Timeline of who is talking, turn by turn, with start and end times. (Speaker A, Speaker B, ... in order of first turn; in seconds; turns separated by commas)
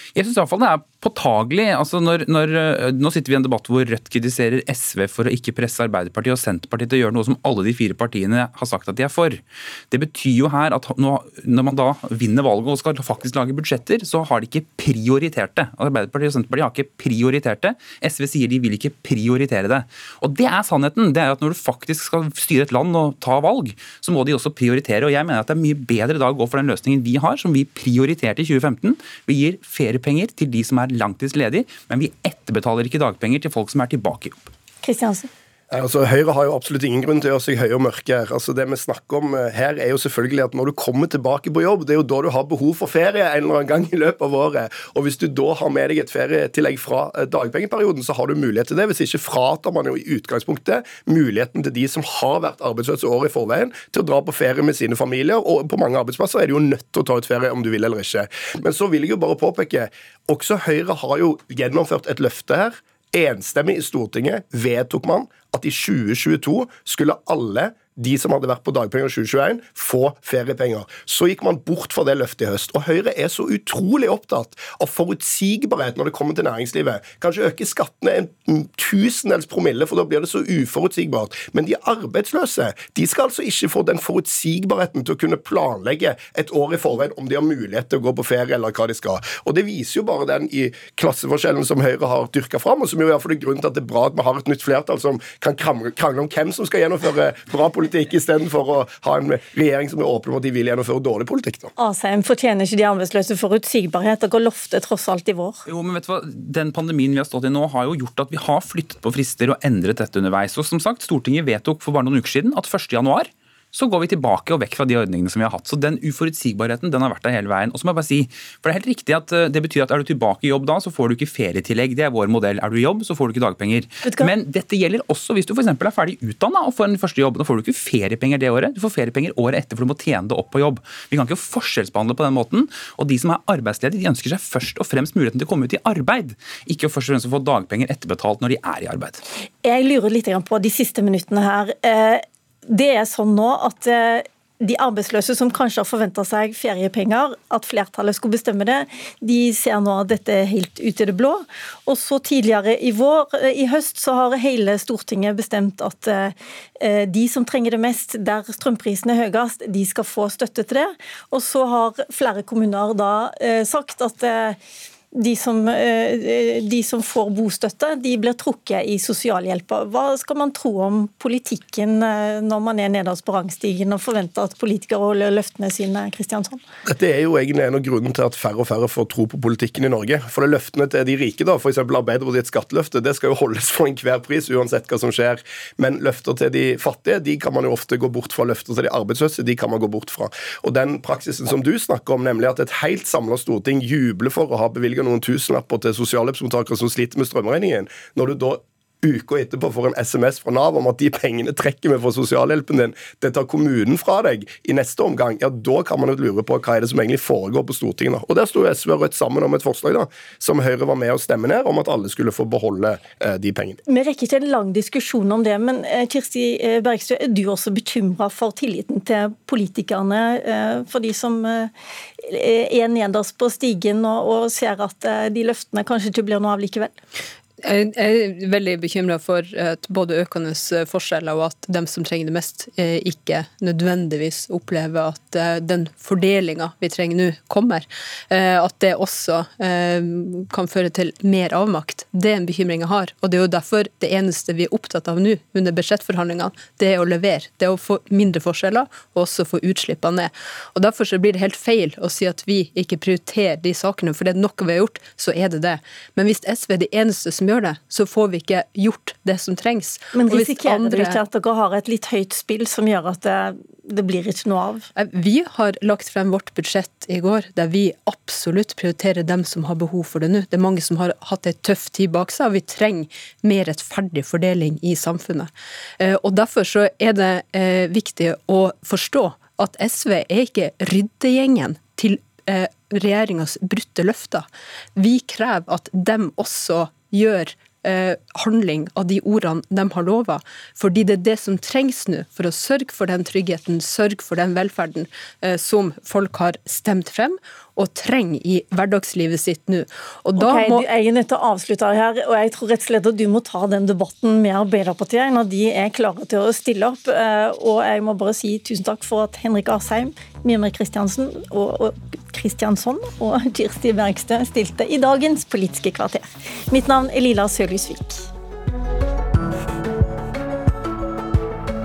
Speaker A: 0.1-34.5, Speaker B: 34.8-35.3, Speaker C: 35.7-101.7, Speaker B: 101.8-105.6, Speaker A: 105.7-139.2, Speaker B: 124.0-124.3, Speaker B: 139.6-164.6, Speaker B: 165.1-176.6, Speaker C: 176.8-213.8, Speaker B: 213.8-226.9, Speaker D: 227.6-261.2, Speaker B: 260.1-264.9, Speaker D: 264.9-300.9, Speaker B: 300.4-318.3